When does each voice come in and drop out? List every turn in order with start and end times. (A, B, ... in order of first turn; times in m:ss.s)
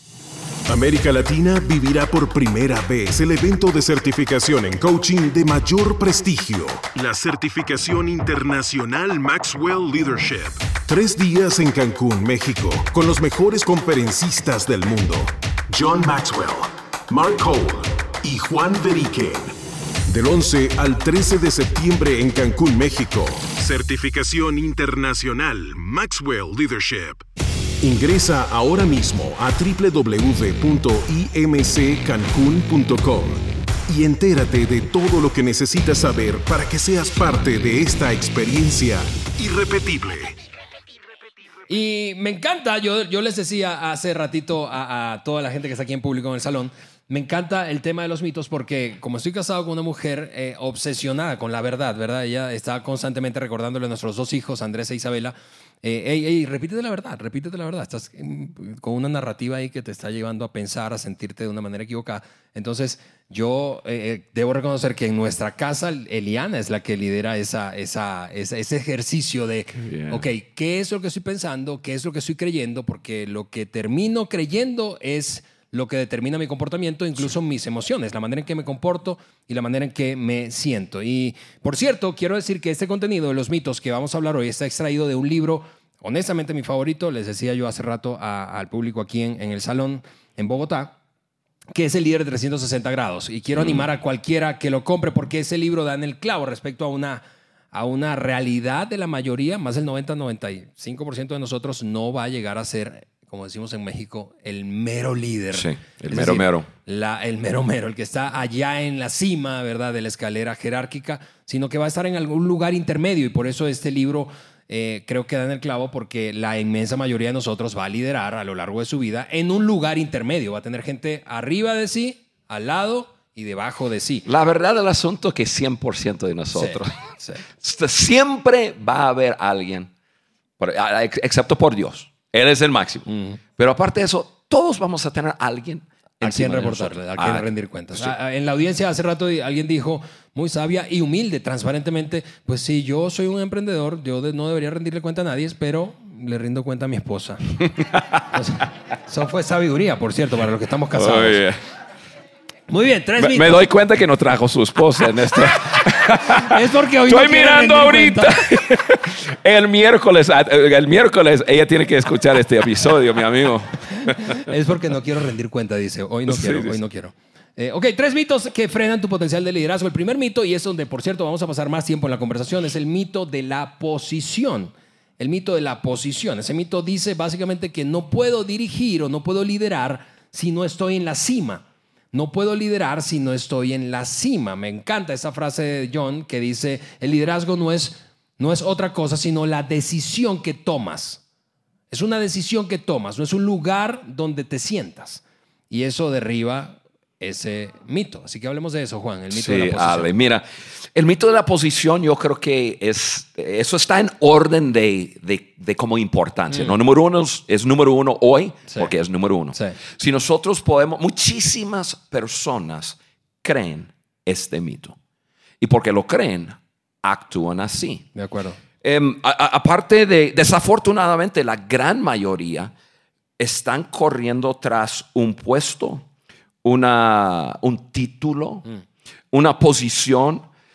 0:00.7-0:19.5 A
0:20.1-0:27.2 A
0:27.8-0:40.4 A
0:41.7-1:31.0 B
1:09.8-1:10.2 C
1:31.7-2:04.3 B
1:33.6-1:33.8 C
1:45.5-1:46.7 C
2:04.2-2:07.0 C
2:06.5-2:07.4 B
2:07.5-2:09.9 C
2:10.6-2:18.1 C
2:13.1-2:13.4 B
2:16.2-2:27.6 B
2:27.6-2:28.2 C
2:28.3-2:31.4 B
2:30.9-2:31.6 C
2:32.7-2:33.7 B
2:33.2-2:44.4 C
2:36.2-2:38.4 B
2:44.0-3:11.2 B
2:46.3-2:46.8 C
3:11.9-3:20.1 B
3:19.3-3:35.0 C
3:29.5-3:29.8 B
3:35.6-3:38.1 C
3:38.1-3:38.6 B
3:38.8-3:42.7 C
3:43.4-3:46.0 C
3:46.6-3:48.6 C
3:49.3-3:50.4 C